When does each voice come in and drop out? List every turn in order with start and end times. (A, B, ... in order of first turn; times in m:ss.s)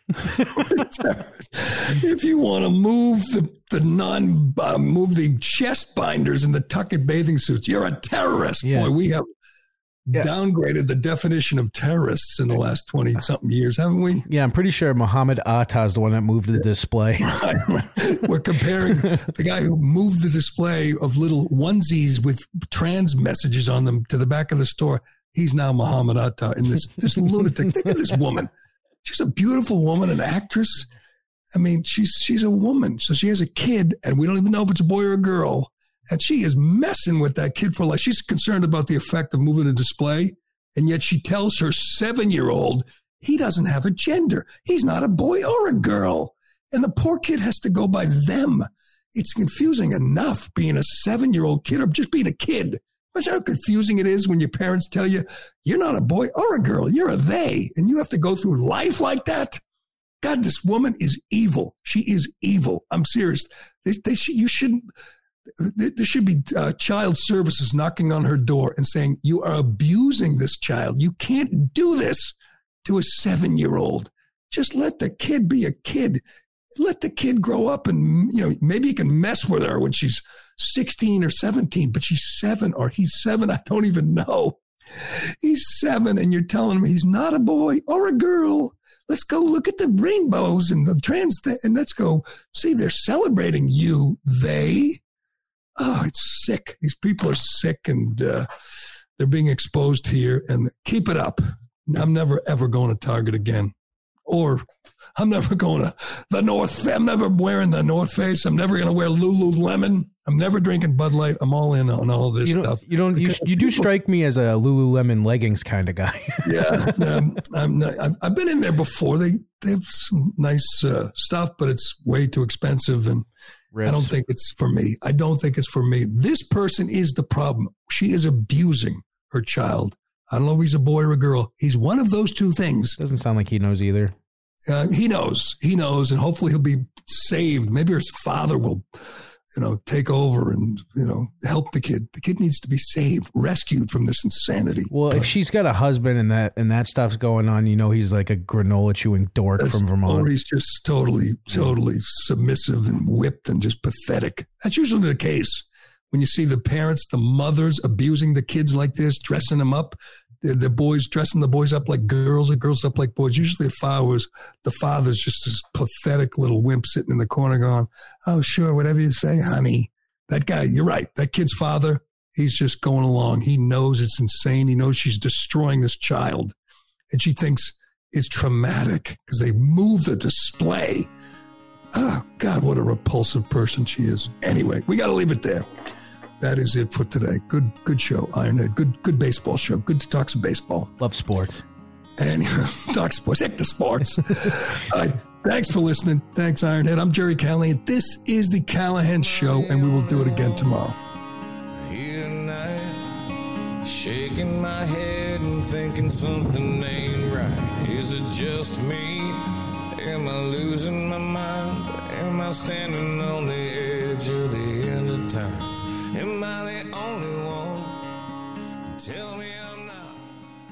0:00.5-0:09.3 A
0:08.6-0:08.9 B
0:10.1-0:14.3 A
0:14.3-0:17.6 B
0:17.2-0:28.5 A
0:18.9-0:19.3 B
0:29.0-0:30.9 A
0:31.6-0:59.6 A
1:00.2-1:04.9 A
1:05.6-1:16.2 A
1:16.8-1:35.0 A
1:35.8-1:38.5 A
1:39.2-1:43.7 A
1:44.3-1:44.6 A
1:45.2-1:53.9 A
1:52.4-1:57.2 B
1:56.4-2:03.3 A
2:03.7-2:04.1 B
2:03.8-2:13.0 A
2:13.0-2:14.2 B
2:14.7-2:18.8 A
2:19.6-2:25.3 A
2:24.9-2:30.3 B
2:29.6-2:56.6 A
2:57.1-3:01.1 A
3:01.9-3:05.7 A
3:06.4-3:10.9 A
3:11.0-3:11.6 B
3:12.2-3:21.0 A
3:21.8-3:23.1 C
3:23.8-3:38.0 C
3:38.9-3:40.3 C